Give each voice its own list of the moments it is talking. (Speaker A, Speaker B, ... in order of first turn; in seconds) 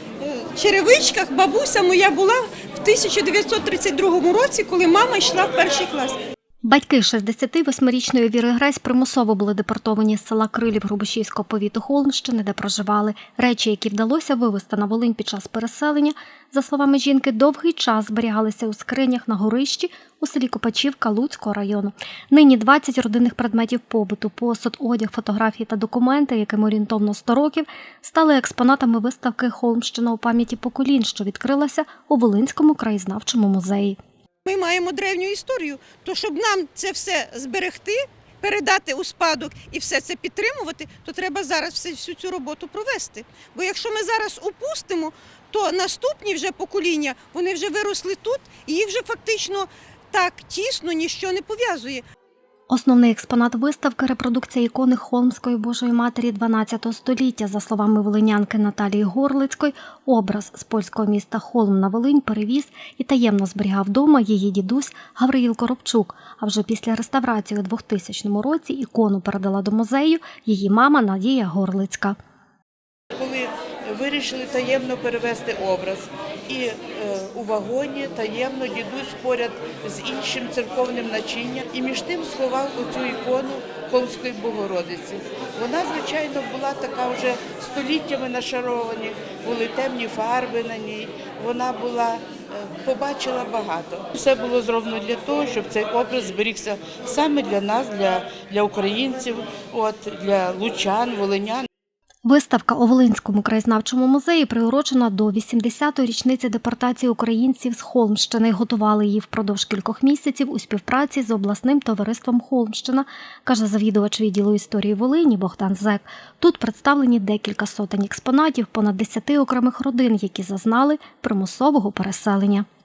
Speaker A: 0.2-6.2, 34.4-52.0
Speaker B: 6.7-34.0, 52.7-72.2, 102.2-122.7
Speaker C: 73.1-101.7